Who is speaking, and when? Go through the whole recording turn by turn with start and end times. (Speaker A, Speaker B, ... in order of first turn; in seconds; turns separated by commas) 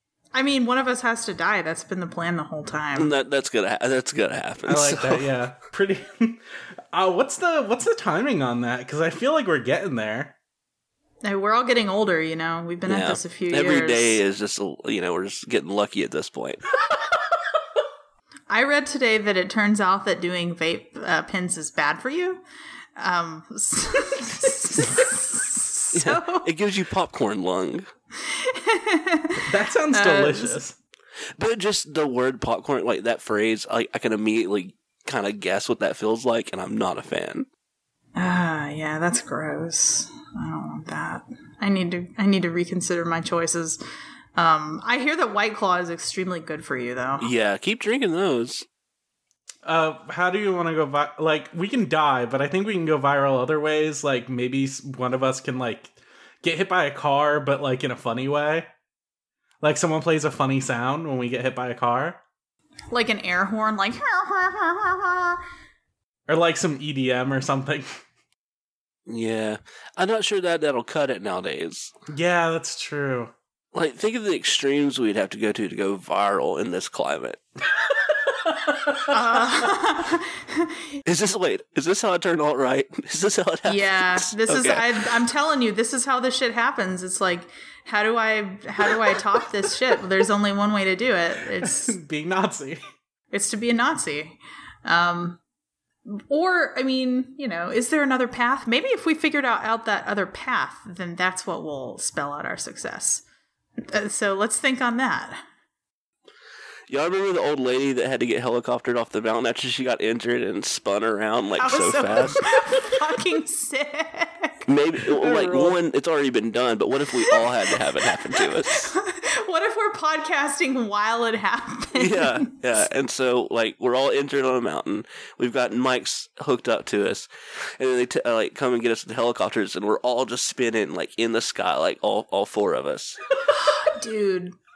Speaker A: 0.3-3.1, Speaker B: 3.0-5.3, Speaker C: 4.7-10.3, Speaker A: 11.2-14.2, Speaker B: 12.9-16.6, Speaker A: 18.5-22.4, Speaker A: 23.0-26.5, Speaker B: 25.9-27.9, Speaker A: 28.2-30.6, Speaker C: 29.4-30.8, Speaker B: 31.4-37.5, Speaker A: 38.1-43.8, Speaker A: 44.4-47.3, Speaker B: 47.2-48.6, Speaker C: 49.6-58.7, Speaker C: 59.6-62.2, Speaker A: 62.9-65.4, Speaker C: 66.3-68.0, Speaker B: 69.1-71.9, Speaker C: 72.1-73.3, Speaker B: 73.7-77.4, Speaker C: 78.1-79.2, Speaker A: 79.1-80.8, Speaker B: 81.0-84.9, Speaker A: 83.7-92.0, Speaker C: 91.6-92.8, Speaker A: 93.3-95.4, Speaker A: 96.1-103.2, Speaker A: 103.8-105.4, Speaker B: 106.9-112.5, Speaker A: 111.6-114.7, Speaker B: 114.7-118.9, Speaker C: 115.2-115.8, Speaker A: 117.3-122.5, Speaker B: 122.0-133.2, Speaker A: 133.5-134.6